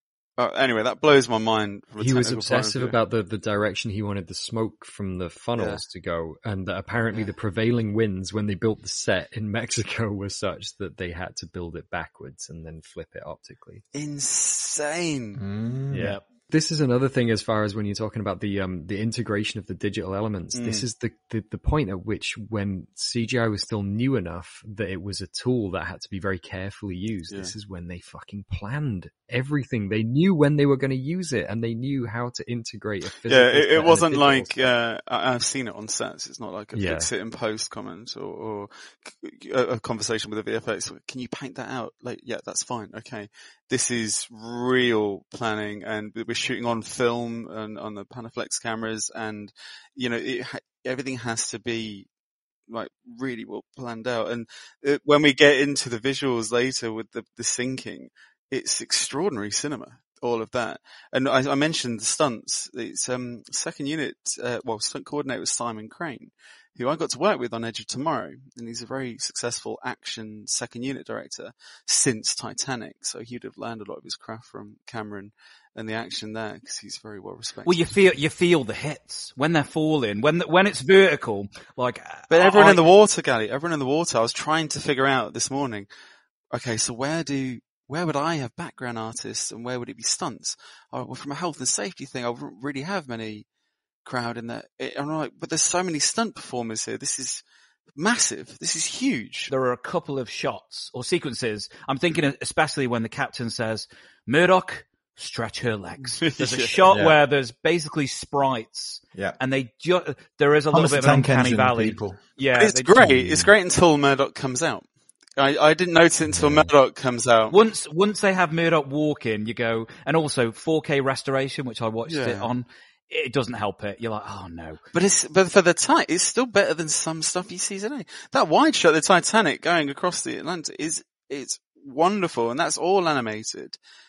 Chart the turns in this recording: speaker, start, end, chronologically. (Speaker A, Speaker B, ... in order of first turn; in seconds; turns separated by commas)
Speaker A: 0.4-3.0, Speaker B: 2.0-13.8, Speaker A: 5.6-5.8, Speaker A: 13.9-15.4, Speaker C: 15.4-16.2, Speaker B: 15.9-34.6, Speaker A: 20.5-20.9, Speaker A: 33.2-52.1, Speaker B: 36.7-37.1, Speaker A: 52.7-78.0, Speaker D: 77.7-82.8, Speaker A: 82.3-85.9, Speaker A: 86.5-93.5, Speaker A: 94.0-97.4, Speaker A: 98.0-99.5, Speaker D: 99.5-112.9, Speaker A: 106.2-106.8, Speaker C: 110.7-112.2, Speaker A: 112.5-117.6, Speaker B: 113.1-113.5, Speaker B: 116.4-116.6, Speaker D: 117.5-124.8, Speaker A: 122.1-122.5, Speaker A: 124.9-133.8